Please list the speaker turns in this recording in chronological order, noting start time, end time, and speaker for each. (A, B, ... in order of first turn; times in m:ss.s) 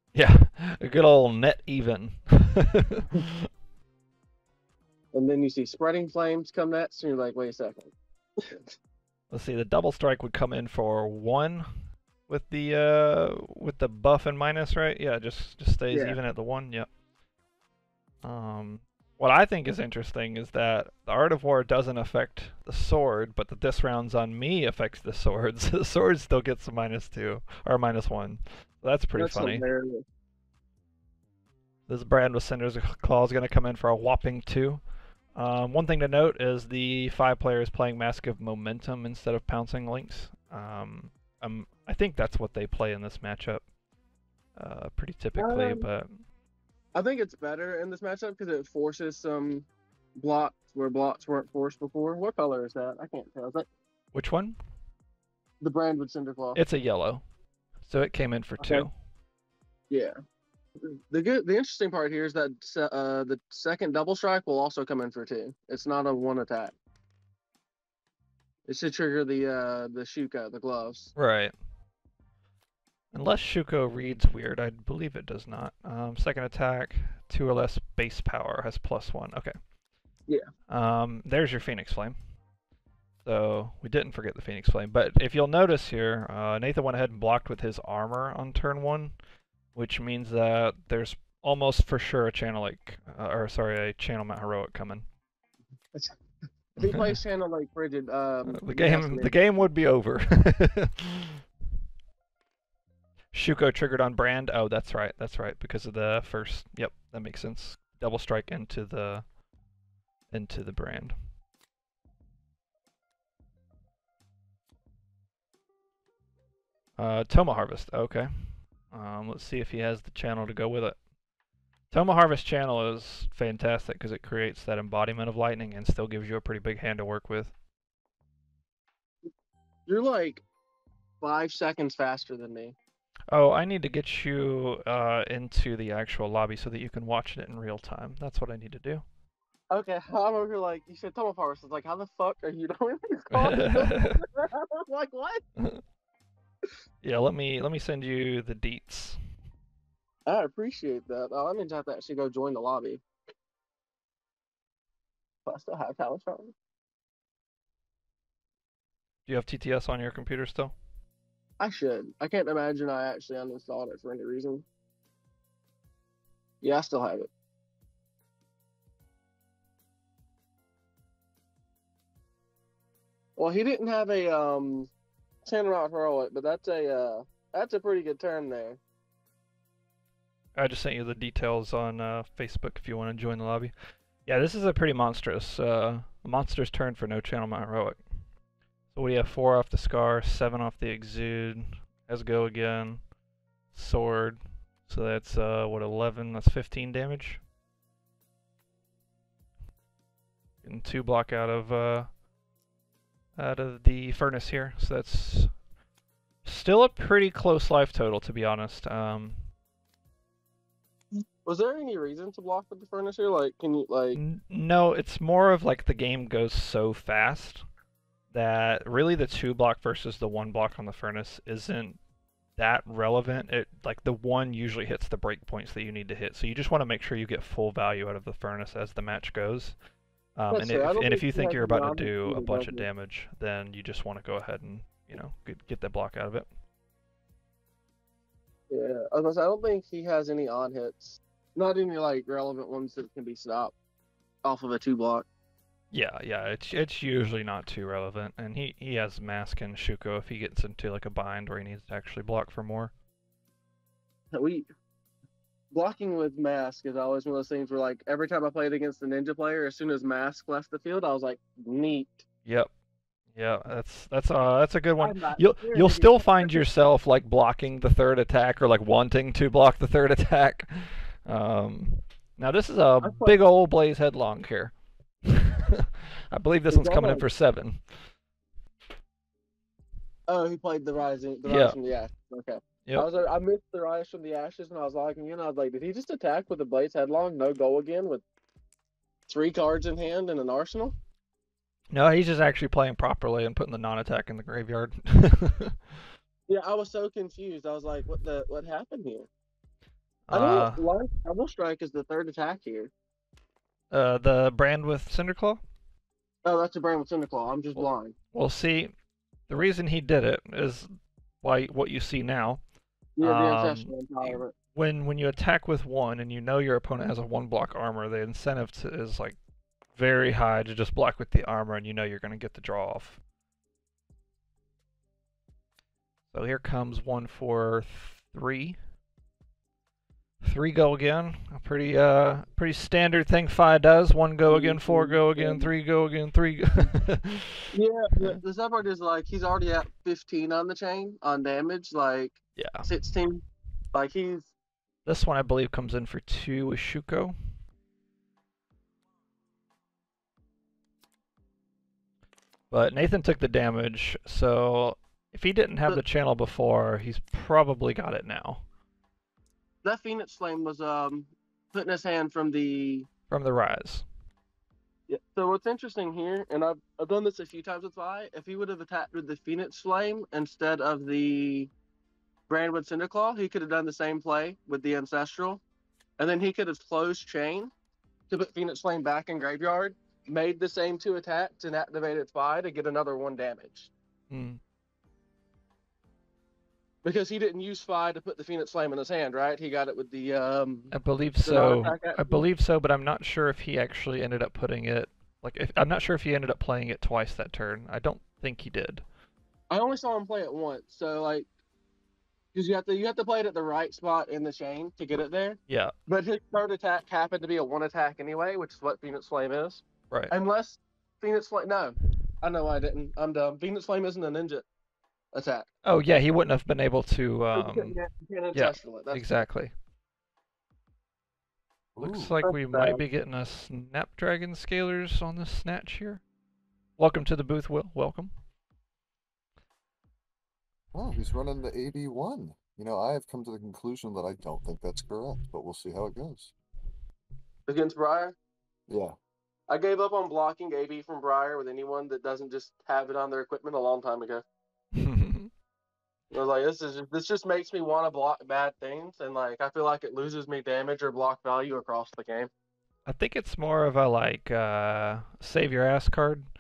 0:00.1-0:03.5 A
0:05.1-0:08.8 B
0:09.3-0:11.7 A
0:12.3-0:16.9 A
0:15.9-0:16.2 B
0:18.2-0:29.6 A
0:29.2-0:30.0 B
0:31.9-0:34.8 A
0:35.4-0:43.6 A
0:44.6-0:46.2 A
0:45.4-0:45.8 B
0:47.0-0:53.7 B
0:54.1-0:54.6 A
0:55.6-0:56.6 B
0:56.6-0:57.2 A
0:57.9-0:58.9 A
0:58.6-0:58.9 B
0:59.9-1:00.2 B
1:00.8-1:06.8 B
1:08.7-1:11.1 B
1:11.2-1:11.5 A
1:13.1-1:19.5 A
1:20.7-1:22.2 A
1:23.2-1:29.2 A
1:29.8-1:35.1 A
1:36.8-1:37.2 A
1:36.8-1:39.4 B
1:38.5-1:41.4 A
1:43.3-1:49.2 A
1:50.3-1:51.2 A
1:57.0-2:01.0 A
2:01.9-2:07.5 A
2:09.9-2:10.4 B
2:11.2-2:12.8 B
2:13.3-2:19.0 A
2:19.7-2:25.4 B
2:23.3-2:24.2 A
2:27.0-2:29.2 A
2:30.3-2:33.0 B
2:35.5-2:36.5 B
2:39.3-2:40.7 A
2:41.6-2:44.6 B
2:46.6-2:47.3 B
2:53.4-2:54.9 B
2:55.4-2:58.8 B
3:00.6-3:03.7 A
3:04.3-3:08.0 A
3:08.9-3:13.0 A
3:13.7-3:17.4 A
3:20.6-3:22.1 A
3:23.4-3:25.5 A
3:26.4-3:29.4 A
3:31.4-3:34.2 B
3:34.2-3:37.6 A
3:38.3-3:42.0 A
3:42.6-3:49.8 A
3:50.4-3:56.5 A
3:50.5-3:52.9 B
3:58.7-4:03.7 B
4:04.4-4:05.3 B
4:05.9-4:12.9 A
4:14.3-4:14.7 B
4:15.7-4:22.2 B
4:23.3-4:34.7 A
4:25.0-4:26.6 B
4:33.0-4:33.3 B
4:35.2-4:38.1 A
4:36.7-4:37.2 B
4:40.3-4:48.2 B
4:41.5-4:41.8 A
4:49.3-4:51.0 B
4:51.9-4:55.9 A
4:56.5-4:59.3 B
5:00.3-5:00.8 A
5:00.3-5:02.9 B
5:03.9-5:05.6 A
5:06.4-5:08.2 B
5:08.3-5:08.9 A
5:09.5-5:10.9 A
5:11.4-5:12.6 A
5:13.2-5:14.5 B
5:13.2-5:19.4 A
5:20.0-5:23.2 A
5:26.3-5:28.8 A
5:30.4-5:37.6 A
5:34.5-5:35.7 B
5:37.7-5:43.4 B
5:42.6-5:42.9 A
5:43.9-5:44.5 B
5:45.1-5:47.4 A
5:52.7-5:58.6 A
5:59.8-6:03.1 B
6:03.3-6:04.0 A
6:05.1-6:11.7 B
6:12.5-6:15.6 B
6:16.2-6:17.7 B
6:18.3-6:23.9 B
6:24.3-6:24.6 A
6:27.0-6:30.9 B
6:30.9-6:39.0 A
6:31.4-6:32.4 B
6:39.7-6:41.5 B
6:42.5-6:54.7 B
6:45.7-6:45.9 A
6:55.3-6:55.7 B
6:55.8-6:58.0 A
6:57.5-6:59.3 B
6:58.5-6:59.7 A
7:02.0-7:02.4 C
7:02.0-7:06.2 A
7:02.4-7:03.0 B
7:07.0-7:08.3 A
7:10.9-7:16.5 C
7:17.7-7:18.4 B
7:18.9-7:19.2 C
7:19.7-7:24.4 B
7:24.9-7:25.5 A
7:26.3-7:32.5 B
7:33.1-7:36.5 A